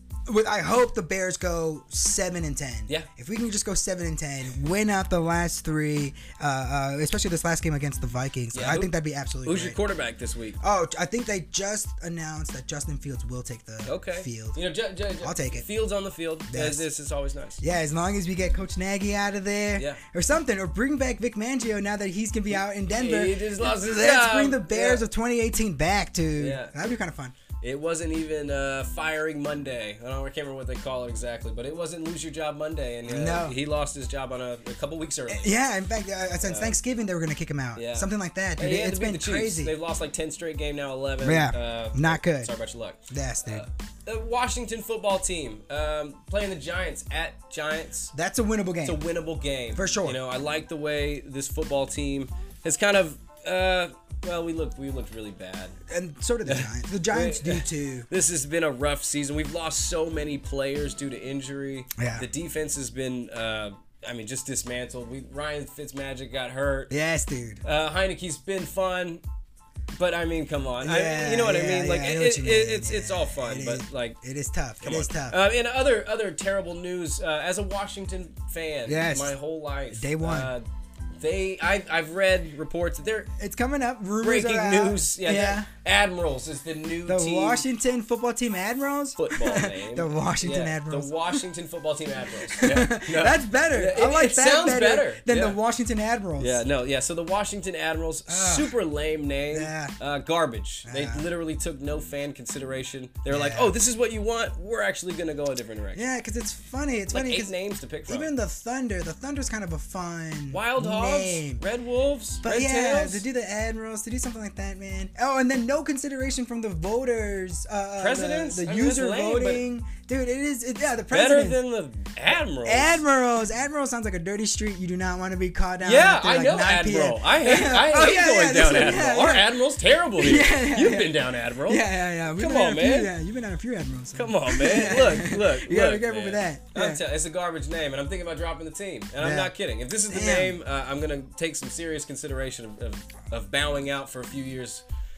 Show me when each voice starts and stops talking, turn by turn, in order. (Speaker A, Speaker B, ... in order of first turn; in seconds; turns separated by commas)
Speaker A: 0.3-9.8, Speaker B: 8.5-8.9, Speaker B: 9.4-10.6, Speaker A: 10.6-14.6, Speaker B: 13.8-17.6, Speaker A: 15.2-15.7, Speaker A: 16.5-16.9, Speaker A: 17.6-27.4, Speaker B: 22.5-25.1, Speaker B: 26.4-26.9, Speaker B: 27.6-35.5, Speaker A: 33.1-33.6, Speaker A: 35.3-39.7, Speaker B: 36.4-36.8, Speaker B: 37.8-48.1, Speaker A: 41.2-42.5, Speaker A: 43.1-43.6, Speaker A: 48.1-49.0, Speaker B: 48.8-55.7, Speaker A: 49.8-50.2, Speaker A: 55.9-58.1, Speaker B: 56.5-66.9, Speaker A: 62.0-62.3, Speaker A: 66.9-67.6, Speaker B: 67.6-69.2, Speaker B: 69.9-74.2, Speaker A: 70.8-75.4, Speaker B: 74.8-80.7, Speaker A: 78.9-79.4, Speaker A: 79.9-80.5, Speaker B: 81.2-83.3, Speaker A: 83.4-85.7, Speaker B: 84.2-87.7, Speaker A: 87.1-91.4, Speaker B: 89.2-95.6, Speaker A: 92.5-96.6, Speaker B: 96.4-106.0, Speaker A: 98.3-98.8, Speaker A: 99.5-100.0, Speaker A: 100.8-101.3, Speaker A: 103.3-103.8, Speaker A: 105.9-107.5, Speaker B: 107.1-108.3, Speaker A: 108.1-111.6, Speaker B: 110.5-113.3, Speaker A: 112.4-121.6, Speaker B: 118.0-119.7, Speaker B: 121.1-123.0, Speaker A: 122.6-129.6, Speaker B: 125.8-133.1, Speaker A: 130.2-137.0, Speaker B: 134.2-144.8, Speaker A: 139.2-139.5, Speaker A: 140.1-140.6